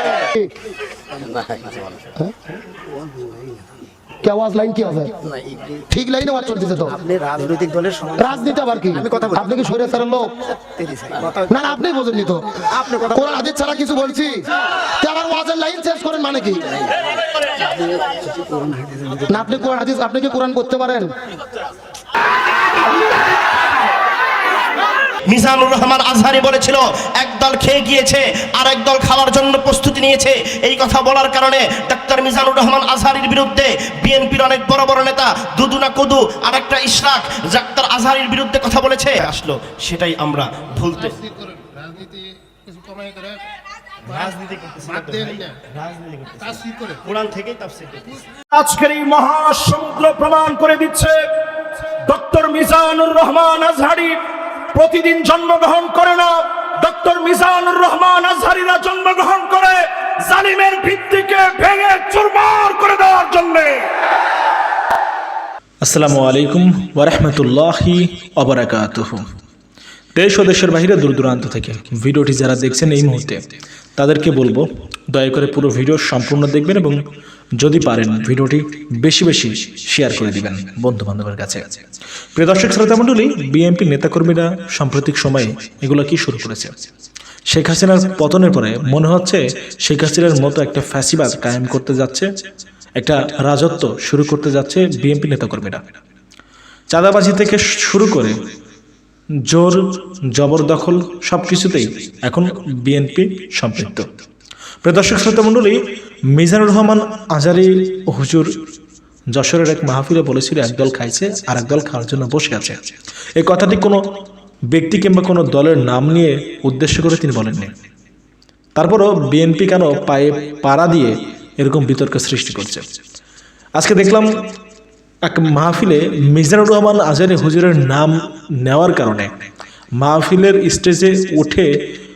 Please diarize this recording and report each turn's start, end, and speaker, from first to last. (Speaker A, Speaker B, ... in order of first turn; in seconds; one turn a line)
Speaker A: 1.3-2.0
Speaker A: 2.9-3.6
Speaker B: 4.2-5.1
Speaker A: 5.3-5.8
Speaker B: 5.9-6.9
Speaker A: 6.8-9.7
Speaker B: 8.2-10.2
Speaker A: 10.8-11.6
Speaker B: 11.5-12.4
Speaker A: 12.7-13.2
Speaker B: 13.1-14.3
Speaker B: 15.0-16.6
Speaker A: 17.6-19.5
Speaker B: 19.3-21.1
Speaker C: 25.3-41.2
Speaker D: 41.2-43.4
Speaker C: 44.0-48.2
Speaker E: 48.5-51.2
Speaker E: 52.1-54.2
Speaker E: 54.7-63.9
Speaker F: 65.8-69.3
Speaker F: 70.2-73.4
Speaker F: 74.0-77.0
Speaker F: 77.6-81.8
Speaker F: 82.4-86.8
Speaker F: 87.5-92.3
Speaker F: 93.0-95.9
Speaker F: 96.9-98.4
Speaker F: 99.5-104.1
Speaker F: 104.8-108.7
Speaker F: 109.3-112.9
Speaker F: 113.4-114.1
Speaker F: 114.7-117.7
Speaker F: 118.8-122.9
Speaker F: 123.8-124.5
Speaker F: 125.2-129.3
Speaker F: 130.0-131.7